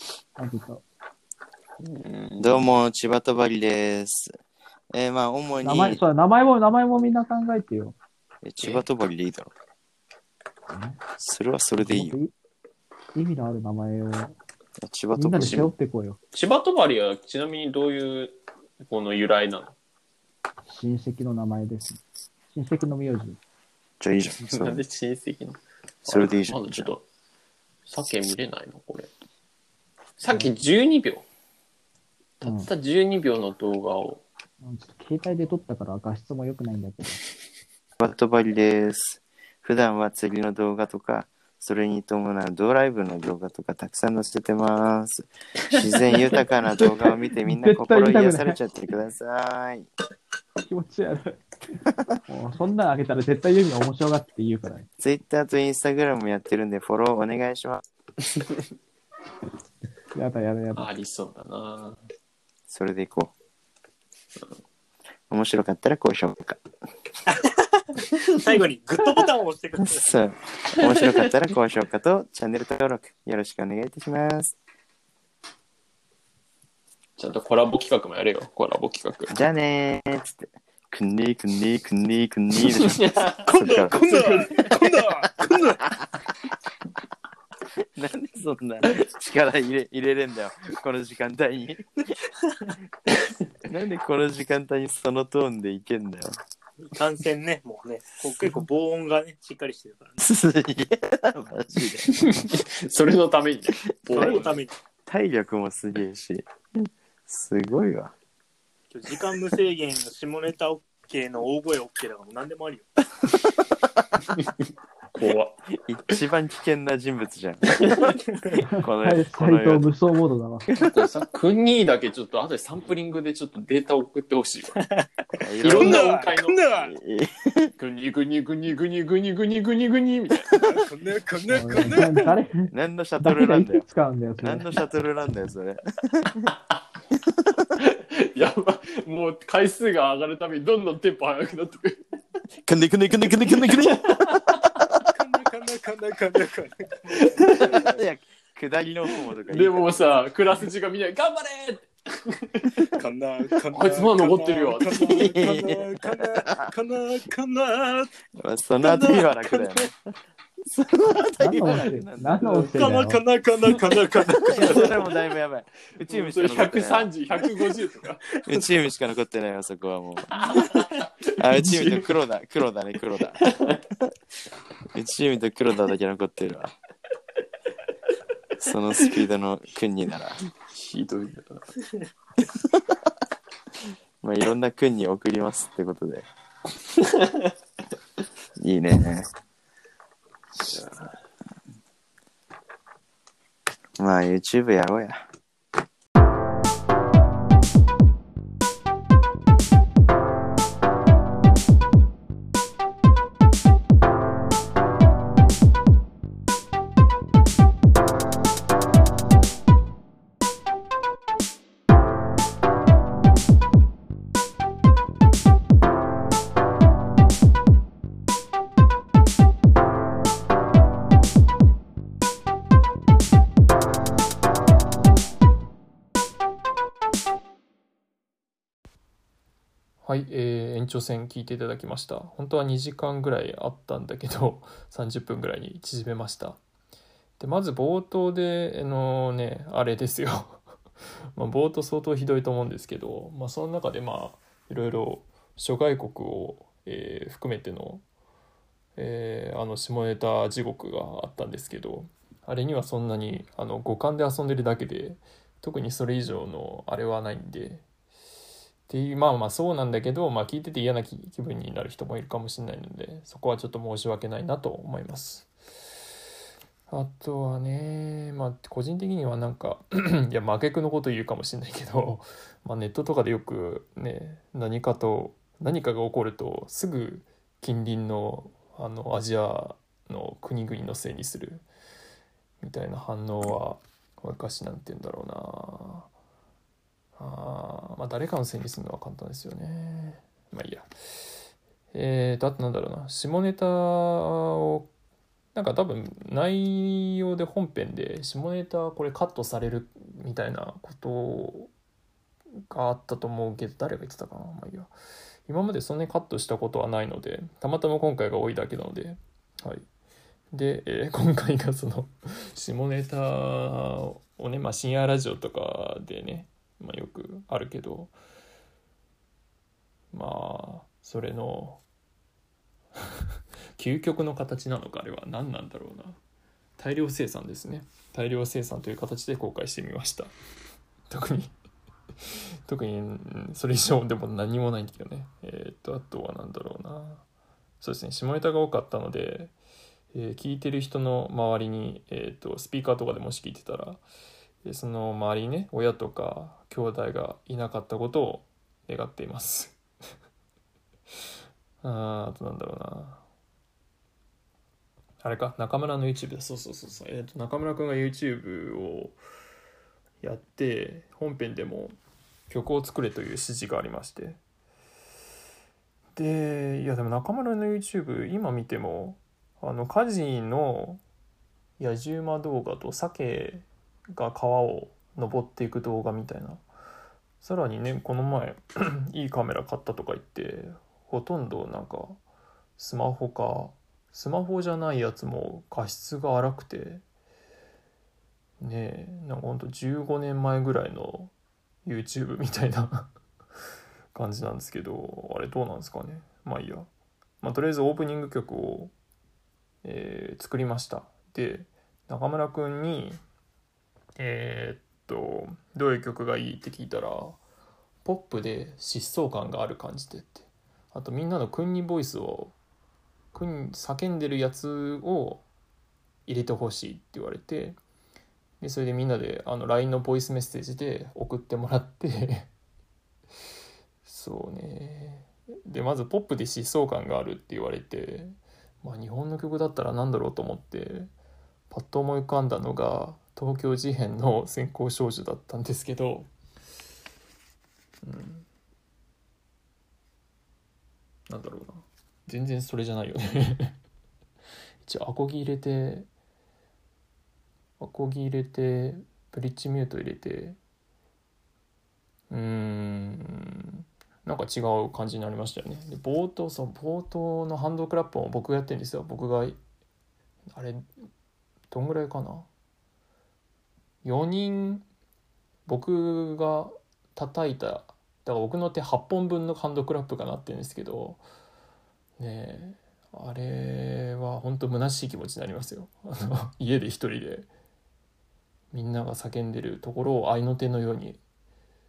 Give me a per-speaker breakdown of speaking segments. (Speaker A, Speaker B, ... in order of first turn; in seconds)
Speaker A: 0.4-0.8, 5.6-7.9, 10.7-11.0, 11.8-12.3, 13.1-14.3, 15.1-16.2, 20.6-22.0, 22.5-23.4, 32.4-32.7, 34.6-37.2, 46.8-48.6, 50.6-51.4, 52.3-54.9, 60.1-60.9, 118.6-120.7, 131.5-134.7, 161.4-163.2
Speaker B: 1.8-2.7, 15.4-15.7, 16.3-19.7, 24.4-27.0, 27.9-29.1, 30.2-31.2, 32.4-34.2, 60.7-62.0, 70.8-71.0, 77.2-79.3, 82.7-84.7, 93.1-93.3, 102.1-104.6, 114.3-115.6, 120.7-124.7, 125.6-126.6, 127.8-130.5, 137.8-142.0, 143.7-144.5, 147.2-147.6, 149.5-152.9, 153.7-155.3, 164.6-164.9, 166.1-168.6, 170.4-171.0, 171.5-172.0, 173.4-173.8, 180.7-181.7, 186.9-187.5, 190.6-191.1
Speaker C: 2.4-4.4, 4.9-6.0, 8.4-9.5, 11.2-12.2, 14.8-15.7, 24.0-24.8, 26.1-26.9, 38.0-49.9, 55.0-57.8, 62.7-63.3, 65.3-66.6, 69.8-74.5, 79.3-84.6, 87.9-92.2, 93.6-96.3, 100.2-102.4, 105.1-108.1, 115.7-118.1, 118.8-119.9, 125.4-126.1, 126.8-127.7, 132.7-133.8, 134.4-136.5, 137.4-137.7, 142.6-144.8, 147.4-149.9, 155.1-156.7, 158.3-159.9, 160.7-162.7, 164.3-167.1, 168.4-174.1, 174.9-176.7, 178.6-180.4, 182.4-182.8, 184.2-186.2, 188.6-189.3, 194.0-195.2
Speaker D: 67.3-70.0, 83.5-85.8, 96.8-100.2, 104.1-104.7, 108.9-112.9, 124.8-125.1, 125.7-127.0, 130.5-132.3, 145.1-148.0, 152.9-158.1, 158.8-159.7, 162.4-164.9
Speaker E: 230.0-236.6, 237.4-240.6, 241.3-248.0, 248.9-257.8, 258.9-265.5, 266.9-281.6, 282.6-286.1, 287.2-290.9, 291.9-294.9, 295.5-301.7, 302.7-304.9, 305.5-309.8, 310.5-318.1, 320.1-321.8, 323.8-326.2, 326.8-330.3, 331.1-331.5, 332.2-337.2, 337.8-339.5, 340.1-344.0, 344.6-349.8, 351.8-353.2, 355.2-359.2, 360.2-361.9, 362.5-364.4, 366.1-371.0, 371.8-376.6, 377.4-382.2, 382.8-387.0, 388.6-391.3, 391.8-393.1, 394.1-396.9, 397.4-398.9, 399.8-403.2, 404.2-407.4, 408.0-412.5, 413.3-415.4, 416.2-417.8, 418.6-422.5, 424.0-431.1, 431.7-436.3, 438.0-438.4, 441.3-443.8, 444.8-446.1, 447.8-450.6, 452.3-459.6, 460.5-460.9, 461.7-462.5, 464.0-464.8, 465.7-471.2, 472.2-477.5, 478.7-481.2